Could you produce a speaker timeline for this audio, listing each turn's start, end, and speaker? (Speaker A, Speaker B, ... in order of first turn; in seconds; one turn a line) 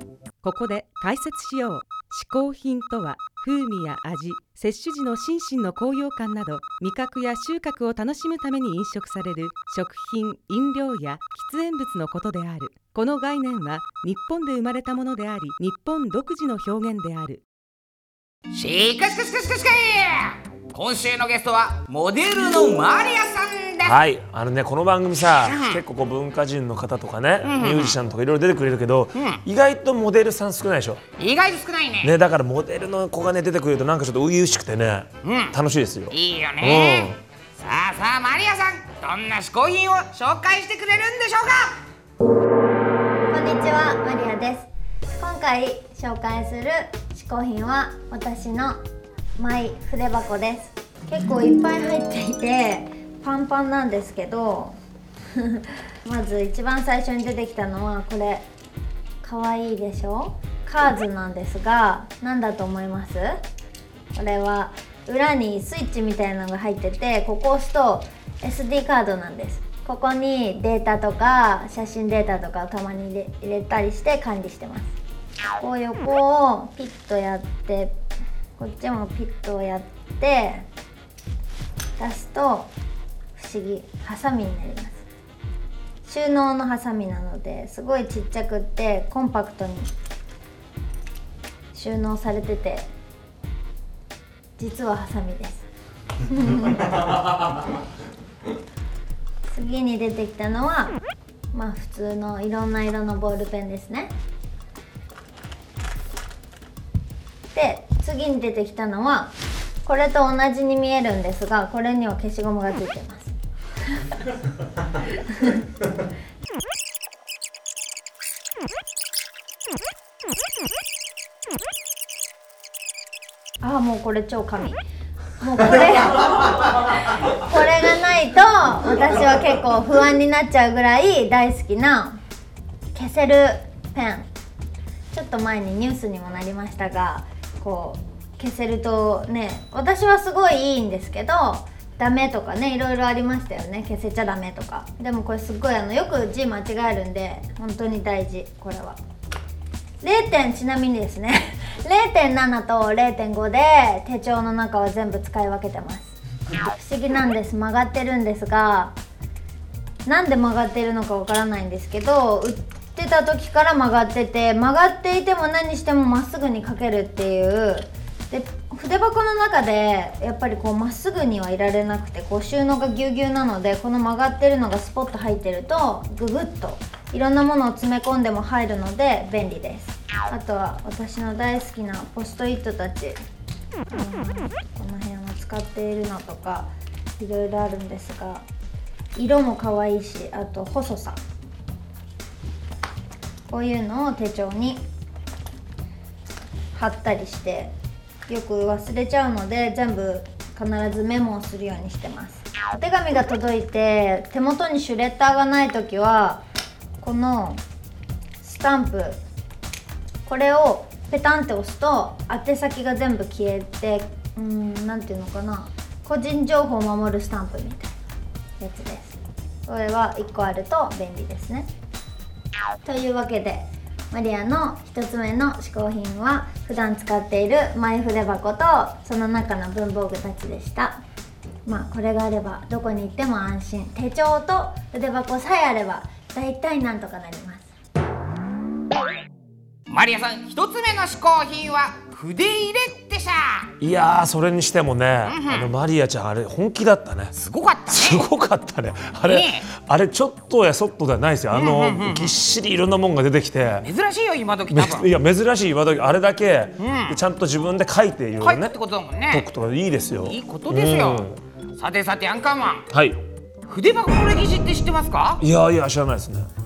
Speaker A: 0.4-17.4
Speaker B: 18.5-24.0
Speaker C: 23.8-31.0
Speaker B: 25.4-25.8
Speaker B: 27.4-28.0
Speaker B: 29.1-29.4
Speaker B: 31.2-32.1
Speaker C: 32.0-37.2
Speaker B: 35.2-35.5
Speaker B: 36.1-41.8
Speaker D: 43.3-48.8
Speaker D: 49.4-54.8
Speaker D: 55.4-58.4
Speaker D: 59.2-63.4
Speaker D: 64.1-74.9
Speaker D: 75.6-78.0
Speaker D: 78.6-80.6
Speaker D: 82.0-82.7
Speaker D: 83.3-85.0
Speaker D: 86.0-89.9
Speaker D: 91.7-92.9
Speaker D: 94.6-95.7
Speaker D: 96.3-97.1
Speaker D: 99.5-101.0
Speaker D: 101.5-104.1
Speaker D: 107.5-109.3
Speaker D: 109.8-113.3
Speaker D: 123.6-124.8
Speaker D: 125.4-132.2
Speaker D: 132.9-134.3
Speaker D: 135.1-149.0
Speaker D: 150.0-158.9
Speaker D: 160.1-183.2
Speaker D: 183.9-188.4
Speaker D: 189.2-191.2
Speaker D: 193.5-194.8
Speaker D: 196.8-197.7
Speaker D: 198.3-206.4
Speaker D: 207.0-207.6
Speaker D: 208.4-209.2
Speaker D: 210.2-217.9
Speaker D: 218.6-221.7
Speaker D: 222.8-231.0
Speaker D: 231.7-237.7
Speaker B: 239.9-243.7
Speaker C: 243.8-247.3
Speaker B: 245.2-245.7
Speaker B: 247.3-248.3
Speaker C: 247.9-253.9
Speaker B: 249.2-249.6
Speaker B: 251.5-252.4
Speaker B: 253.8-255.1
Speaker C: 254.7-258.7
Speaker B: 256.8-257.2
Speaker B: 258.4-259.5
Speaker C: 259.3-261.4
Speaker B: 260.2-262.9
Speaker C: 262.9-263.2
Speaker B: 263.7-265.4
Speaker C: 265.4-266.5